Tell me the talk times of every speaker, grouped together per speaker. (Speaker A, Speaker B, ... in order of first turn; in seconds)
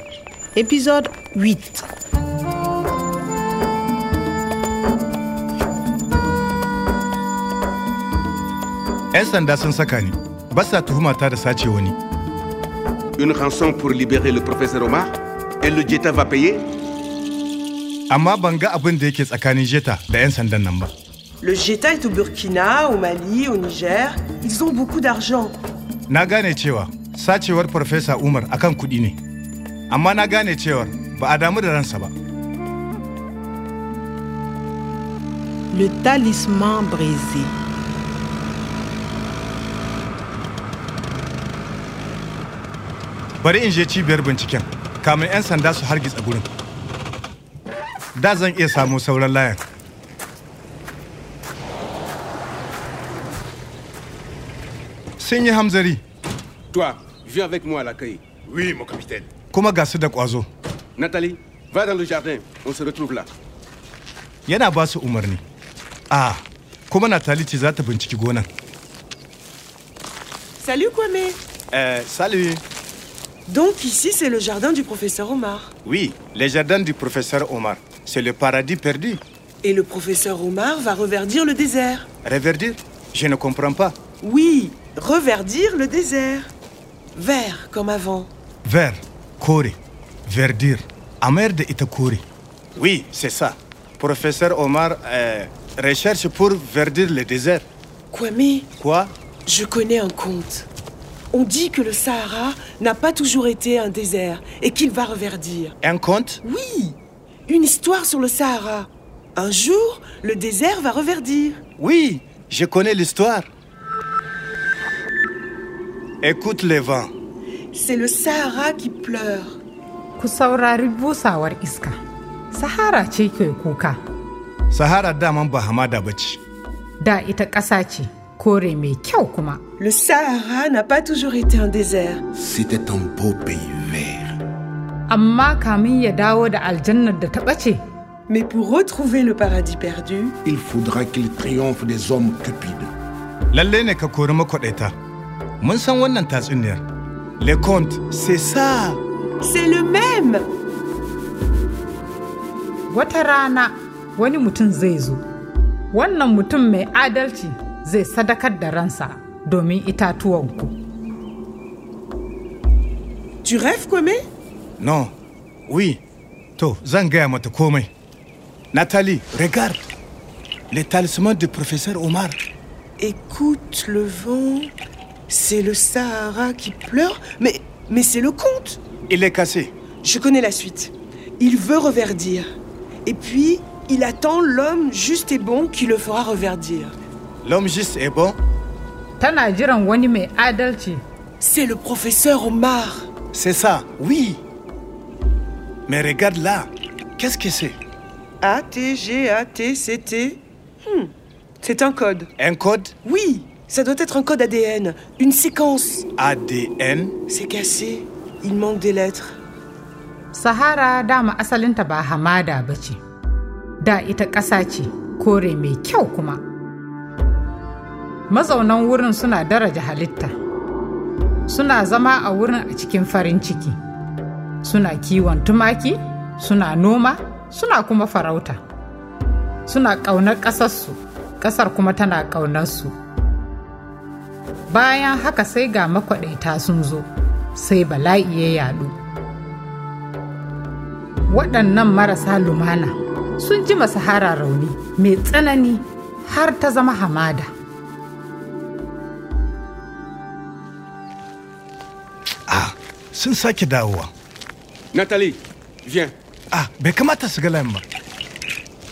Speaker A: 0.5-1.9, 35.7-37.5
Speaker B: 9.1-12.0, 18.1-20.9, 26.1-29.2, 29.9-32.1, 43.4-46.5, 48.1-49.6, 55.2-56.0, 59.5-60.5, 64.5-65.4, 66.1-68.5, 71.7-72.6, 75.8-79.2, 82.2-84.0, 88.6-92.2, 92.8-97.6, 98.8-99.1, 105.8-106.4, 111.8-113.5, 116.2-117.1, 124.7-126.4, 143.5-144.9, 145.6-146.8, 147.4-149.0, 164.8-165.1, 165.7-166.0, 166.6-167.9, 168.7-169.8, 170.7-172.4, 179.1-179.7, 187.4-188.4, 193.3-194.4, 195.9-197.8, 202.4-202.9, 206.2-207.1, 252.5-254.1, 256.5-257.8
Speaker C: 13.2-16.6, 56.7-58.4, 61.0-63.3, 254.9-256.1
Speaker D: 21.4-25.5, 70.6-71.4, 73.5-75.7, 79.6-82.0, 84.2-86.5, 87.1-88.3, 98.1-98.7, 99.5-100.7, 101.3-105.7, 106.4-111.6, 117.7-119.6, 129.8-132.2, 138.3-140.3, 149.4-150.4, 163.4-164.2, 173.0-174.7, 175.3-178.8, 180.0-182.4, 183.1-186.9, 191.4-193.1, 198.4-202.3, 203.0-206.1, 207.3-209.3
Speaker E: 120.2-121.9, 122.5-124.0, 127.0-129.6, 135.1-137.8, 152.9-155.2, 155.9-160.7, 189.2-191.0, 210.3-213.0, 213.8-216.4, 218.3-220.3, 221.5-223.8, 224.6-228.6, 229.7-232.9, 234.7-238.9, 241.3-247.5
Speaker F: 132.3-134.3, 140.4-142.9